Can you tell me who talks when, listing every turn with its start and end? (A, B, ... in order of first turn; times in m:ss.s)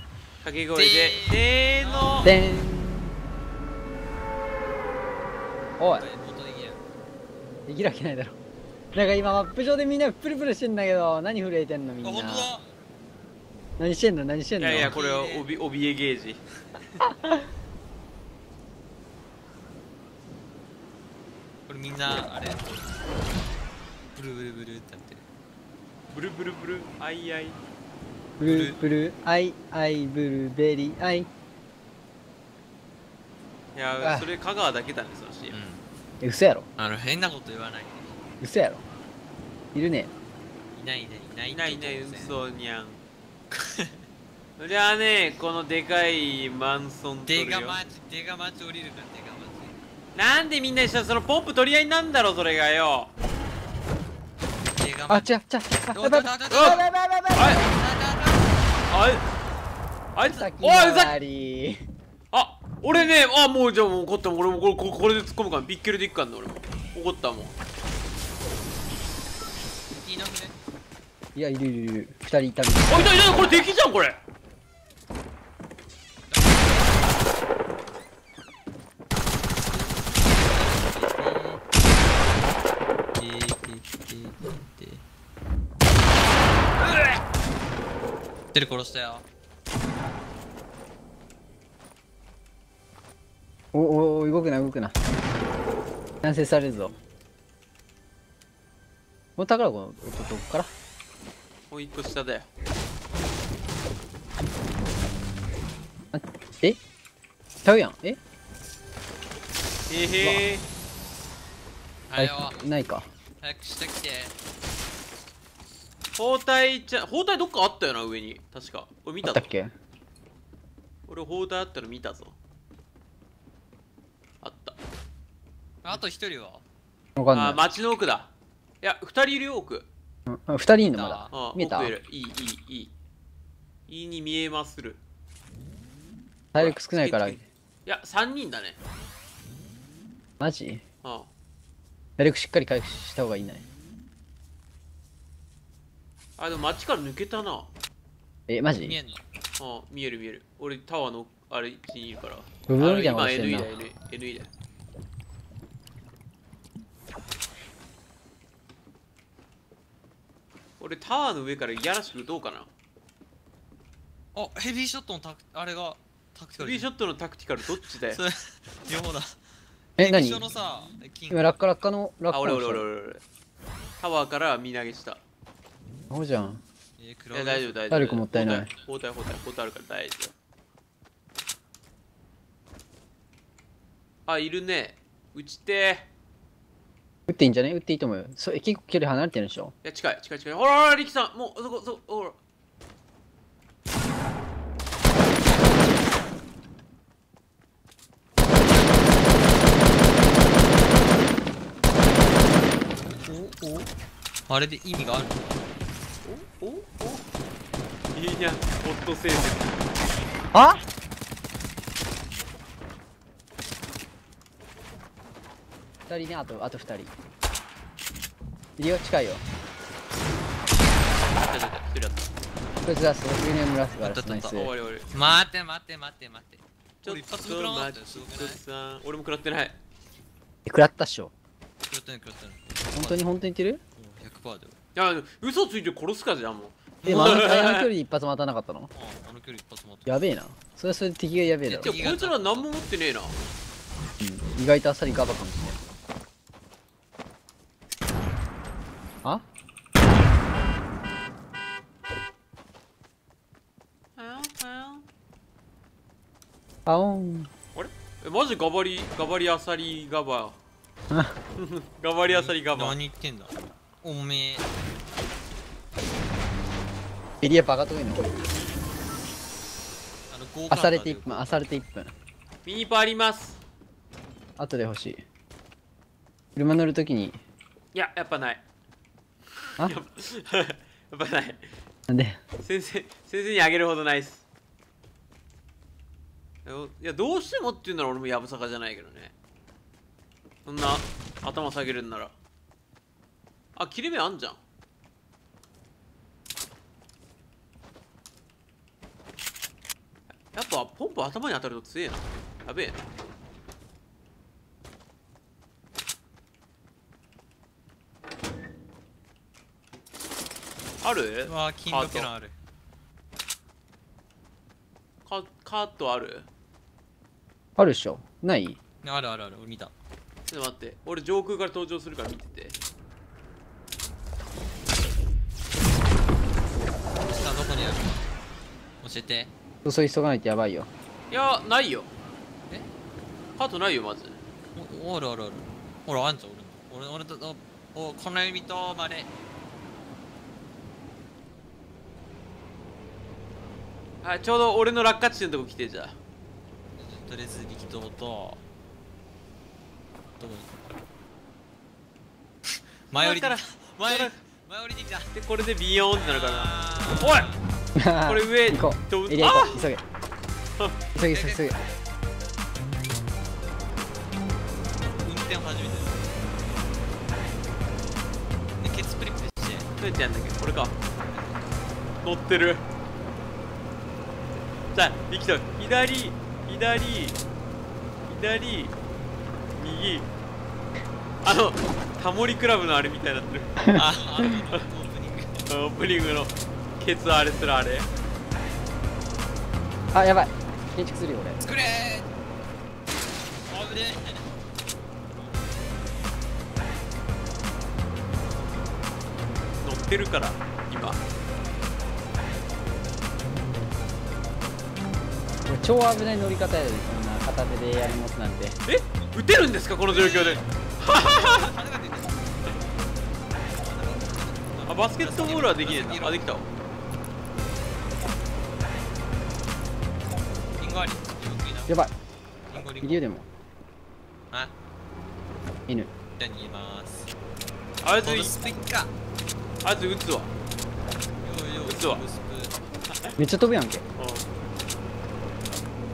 0:00.4-0:02.3 A
0:00.7-0:02.4 B
0:02.2-0:03.1 C
0:05.8-0:06.1 C
0:05.9-0:06.8 B
0:07.7-0:08.4 C
0:08.9-0:12.5 C
0:12.0-0:12.6 B
0:13.8-0:14.9 C
0:14.6-0:16.4 A
0:14.8-0:15.5 B
0:21.7-0:22.8 B
0:24.2-0:25.2 B
0:26.1-0:27.6 A
0:28.4-0:31.3 C
0:28.4-0:28.8 B
0:33.8-0:35.6 A
0:34.0-0:34.3 C
0:35.5-0:35.8 B
0:36.2-0:36.7 C
0:36.8-0:38.2 B
0:38.4-0:38.8 C
0:39.7-0:40.1 C
0:40.7-0:42.4 B
0:41.5-0:43.0 A
0:43.6-0:44.0 B
0:44.6-0:47.8 A
0:47.3-0:49.8 B
0:50.1-0:53.1 A
0:54.8-0:55.3 B
0:55.1-0:57.7 C
0:55.9-0:56.9 B
0:56.5-0:56.8 A
0:57.4-0:57.6 A
0:57.5-0:58.7 B
0:58.9-0:59.2 A
1:00.2-1:01.2 A
1:00.2-1:01.8 C
1:02.3-1:07.6 A
1:09.9-1:10.6 B
1:11.4-1:13.6 C
1:12.9-1:14.2 A
1:16.3-1:17.1 B
1:19.7-1:21.6 B
1:23.2-1:25.0 B
1:28.5-1:29.2 B
1:33.7-1:34.9 C
1:36.2-1:37.0 C
1:39.4-1:40.7 C
1:41.7-1:42.5 A
1:46.1-1:46.8 C
1:47.6-1:48.2 C
1:49.9-1:50.6 A
1:52.1-1:52.6 B
1:52.2-1:53.1 C
1:53.4-1:54.3 B
1:56.2-1:59.5 A
1:59.2-1:59.7 C
2:01.1-2:02.4 A
2:04.4-2:04.8 A
2:05.8-2:06.6 B
2:07.2-2:07.6 C
2:07.3-2:08.3 A
2:08.8-2:09.9 A
2:10.3-2:11.9 C
2:10.9-2:11.4 B
2:11.3-2:12.9 A
2:13.9-2:15.0 A
2:16.5-2:17.4 C
2:16.6-2:18.8 A
2:20.4-2:20.8 C
2:21.0-2:21.3 A
2:22.2-2:23.6 C
2:26.4-2:27.7 A
2:28.5-2:29.0 C
2:28.8-2:29.2 B
2:29.6-2:34.5 A
2:32.7-2:33.8 C
2:40.8-2:42.7 A
2:44.4-2:46.9 B
2:46.6-2:48.2 A
2:47.8-2:49.4 B
2:50.0-2:51.5 B
2:50.0-2:50.4 C
2:51.3-2:52.8 C
2:52.3-2:53.2 A
2:54.0-2:55.2 A
2:56.1-2:56.6 C
2:57.0-2:57.8 B
2:57.3-3:00.3 A
2:57.9-2:58.7 C
3:04.3-3:06.1 A
3:07.3-3:09.7 C
3:09.8-3:12.4 A
3:23.3-3:23.9 B
3:24.5-3:25.5 B
3:26.2-3:27.2 A
3:28.1-3:29.7 A
3:30.5-3:30.8 C
3:36.1-3:37.1 C
3:38.8-3:39.4 C
3:41.3-3:42.3 A
3:42.8-3:44.7 C
3:44.0-3:48.6 B
3:44.6-3:45.1 A
3:47.0-3:49.8 A
3:50.7-3:51.3 C
3:51.9-3:53.2 B
3:53.0-3:53.8 C
3:54.0-3:54.8 B
3:55.0-3:57.9 A
3:57.0-3:57.5 B
3:57.0-3:58.9 C
3:58.9-4:00.2 B
4:00.1-4:02.0 C
4:01.6-4:02.7 B
4:01.8-4:03.4 A
4:04.2-4:05.8 C
4:14.2-4:15.0 A
4:16.9-4:17.5 C
4:17.8-4:20.6 A
4:21.6-4:23.0 A
4:22.3-4:24.6 B
4:27.4-4:28.3 C
4:30.3-4:31.6 B
4:30.7-4:32.1 C
4:32.6-4:33.6 A
4:34.6-4:35.2 C
4:36.6-4:37.4 C
4:37.9-4:38.6 A
4:39.8-4:41.7 A
4:42.1-4:42.4 C
4:42.6-4:44.4 A
4:46.6-4:49.3 A
4:50.7-4:52.4 A
4:53.8-4:54.6 A
5:00.5-5:03.0 A
5:11.0-5:12.3 A
5:11.4-5:12.5 B
5:15.2-5:16.5 A
5:17.8-5:18.8 C
5:19.0-5:19.9 B
5:20.5-5:22.8 A
5:27.2-5:28.2 B
5:29.0-5:29.5 B
5:29.8-5:30.9 C
5:31.3-5:32.1 A
5:33.6-5:34.4 A
5:34.8-5:39.3 B
5:44.2-5:46.2 A
5:47.0-5:48.6 B
5:50.4-5:50.7 B
5:53.1-5:55.3 B
5:53.1-5:54.4 A
5:55.3-5:57.5 A
5:56.2-5:57.6 B
5:58.0-6:00.0 C
5:58.3-5:59.9 A
6:01.2-6:01.8 C
6:01.3-6:01.8 B
6:05.0-6:06.4 B
6:08.8-6:09.9 B
6:10.0-6:11.0 A
6:11.2-6:11.7 B
6:12.2-6:12.8 A
6:14.9-6:17.4 A
6:18.3-6:19.0 A
6:19.8-6:20.3 A
6:21.4-6:23.8 A
6:23.8-6:24.0 C
6:23.9-6:25.7 B
6:25.7-6:28.1 A
6:30.1-6:31.6 C
6:31.6-6:32.3 B
6:33.7-6:34.5 B
6:39.8-6:41.2 A
6:45.7-6:48.8 C
6:48.9-6:51.7 A
6:50.1-6:52.8 B
6:53.7-6:56.4 B
6:54.9-6:56.7 A
7:00.8-7:02.0 B
7:02.7-7:03.2 B
7:03.0-7:03.5 C
7:06.4-7:07.3 B
7:08.0-7:08.6 A
7:08.2-7:09.1 B
7:09.8-7:10.5 A
7:11.4-7:12.8 B
7:11.8-7:12.2 A
7:13.1-7:13.4 A
7:13.4-7:14.0 C
7:14.2-7:14.5 A